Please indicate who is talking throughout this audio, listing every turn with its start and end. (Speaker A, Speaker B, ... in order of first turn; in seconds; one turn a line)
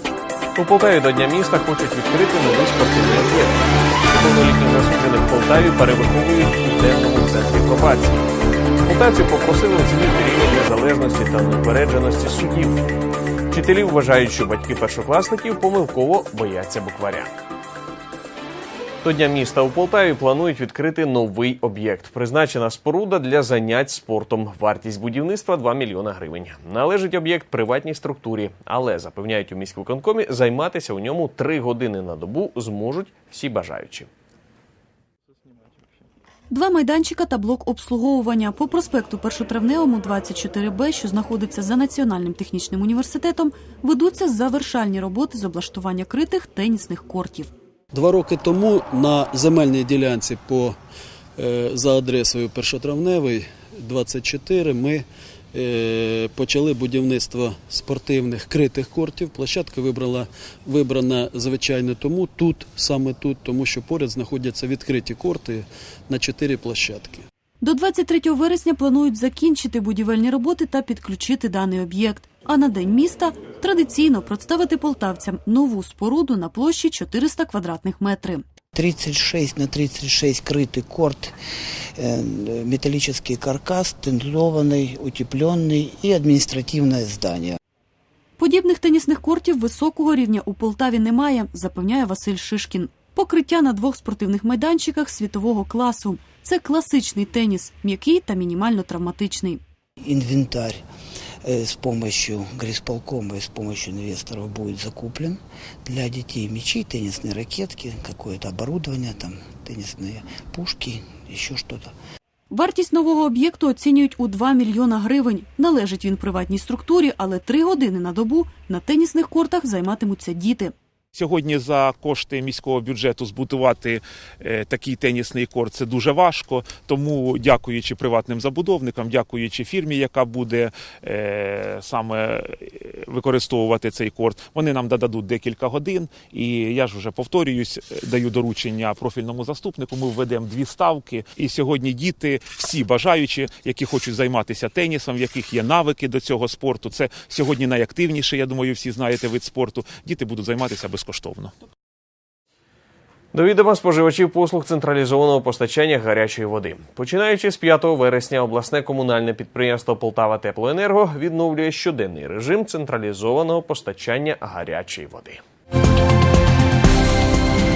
Speaker A: 0.6-8.2
Speaker A: 8.8-12.8
Speaker A: 13.5-17.3
Speaker A: 19.0-34.1
Speaker B: 36.5-47.5
Speaker C: 47.9-50.8
Speaker C: 51.4-67.2
Speaker B: 67.6-78.4
Speaker D: 78.7-81.3
Speaker D: 82.0-87.6
Speaker B: 88.4-99.6
Speaker D: 100.0-100.8
Speaker D: 101.5-111.9
Speaker B: 112.5-120.7
Speaker E: 121.1-151.5
Speaker A: 153.3-165.4